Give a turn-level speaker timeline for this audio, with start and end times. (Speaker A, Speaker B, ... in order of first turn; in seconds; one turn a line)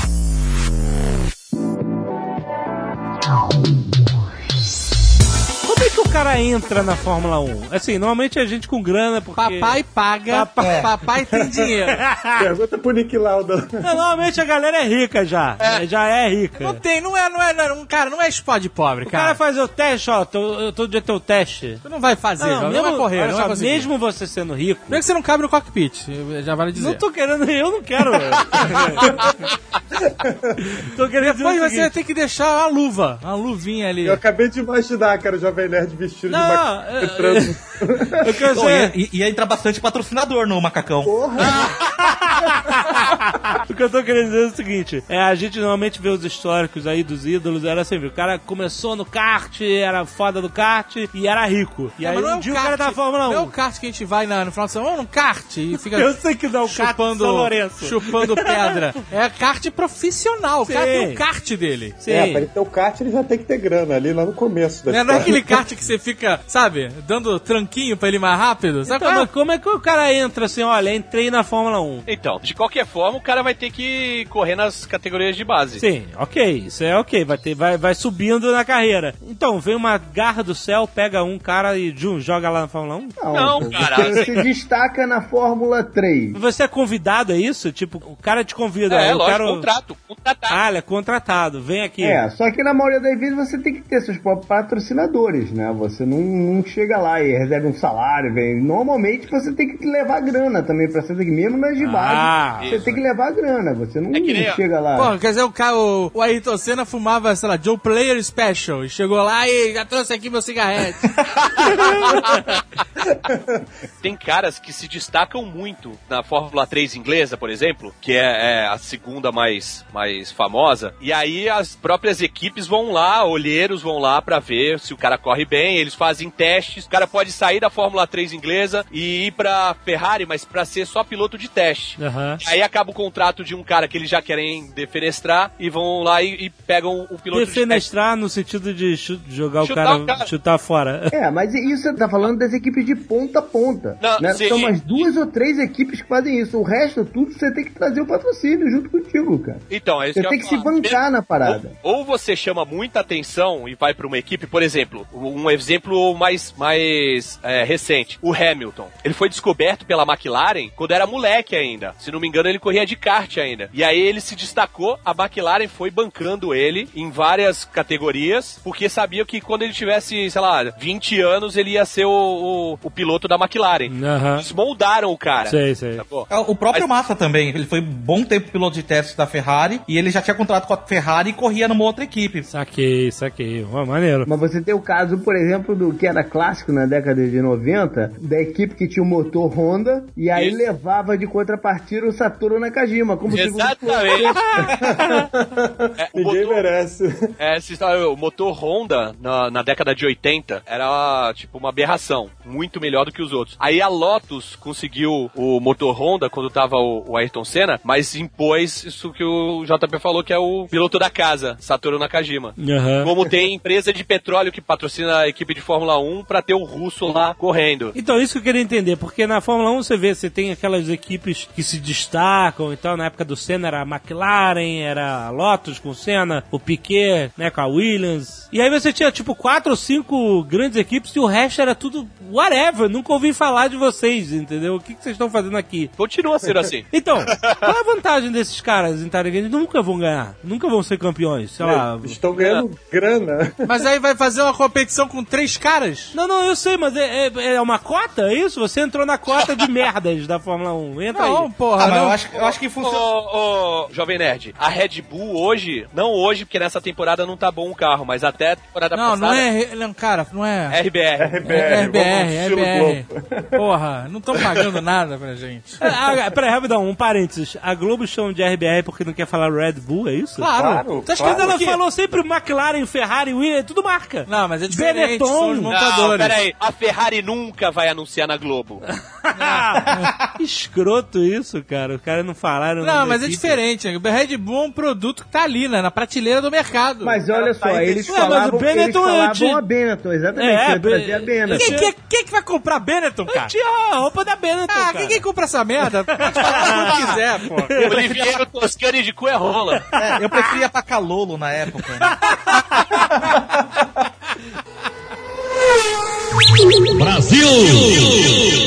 Speaker A: 5.6-10.9
Speaker B: 9.4-12.0
Speaker C: 10.6-10.9
Speaker A: 12.0-12.5
Speaker D: 12.4-13.9
Speaker A: 13.8-16.8
Speaker E: 15.6-15.8
Speaker B: 16.6-19.4
Speaker A: 19.1-21.9
Speaker B: 21.8-23.9
Speaker A: 22.4-25.0
Speaker B: 24.9-27.0
Speaker A: 26.8-29.1
Speaker A: 30.7-31.9
Speaker B: 31.2-34.2
Speaker D: 34.0-38.3
Speaker A: 36.3-37.6
Speaker A: 38.2-38.9
Speaker C: 38.5-41.2
Speaker F: 41.1-41.6
Speaker A: 41.4-53.5
Speaker B: 52.0-62.0
Speaker A: 55.8-58.6
Speaker A: 60.7-61.2
Speaker A: 62.0-62.5
Speaker D: 62.1-65.6
Speaker B: 64.9-69.3
Speaker A: 68.9-72.0
Speaker E: 72.1-75.8
Speaker A: 75.8-83.7
Speaker F: 83.2-86.4
Speaker E: 83.3-84.3
Speaker A: 86.3-89.7
Speaker E: 88.9-90.6
Speaker A: 90.5-92.2
Speaker F: 92.0-105.2
Speaker A: 101.8-102.8
Speaker E: 102.6-103.0
Speaker E: 104.1-104.6
Speaker B: 105.0-111.1
Speaker E: 111.5-112.6
Speaker E: 114.0-137.8
Speaker A: 132.0-132.4
Speaker A: 137.3-141.1
Speaker E: 139.6-140.3
Speaker F: 141.1-151.8
Speaker E: 144.0-145.1
Speaker E: 149.7-176.9
Speaker A: 173.9-174.5
Speaker A: 175.5-176.0
Speaker C: 176.3-182.5
Speaker A: 182.5-184.3
Speaker F: 184.3-194.4
Speaker E: 190.3-190.6
Speaker E: 193.3-194.7
Speaker D: 194.8-197.1
Speaker E: 196.0-196.6
Speaker E: 197.4-218.0
Speaker A: 212.6-213.1
Speaker A: 217.9-235.9
Speaker E: 236.0-237.7
Speaker A: 236.9-242.2
Speaker D: 241.6-243.7
Speaker E: 242.3-242.7
Speaker B: 243.7-246.2
Speaker A: 246.1-251.5
Speaker B: 251.1-252.2
Speaker C: 251.8-253.1
Speaker E: 252.3-259.5
Speaker B: 258.9-260.8
Speaker E: 260.7-261.4
Speaker D: 261.2-263.6
Speaker B: 261.4-265.8
Speaker D: 264.3-264.7
Speaker A: 265.8-270.5
Speaker B: 270.4-271.8
Speaker D: 270.5-271.6
Speaker A: 271.2-275.8
Speaker B: 274.3-276.4
Speaker E: 275.7-278.8
Speaker A: 278.9-283.6
Speaker B: 279.3-280.1
Speaker B: 282.8-287.2
Speaker F: 287.0-291.9
Speaker E: 287.3-288.5
Speaker A: 288.1-289.6
Speaker A: 290.4-291.9
Speaker B: 291.5-293.5
Speaker A: 293.3-295.2
Speaker B: 294.7-298.3
Speaker A: 296.1-298.2
Speaker E: 296.4-297.2
Speaker E: 297.8-299.9
Speaker C: 300.0-302.1
Speaker A: 302.2-302.9
Speaker A: 306.9-307.9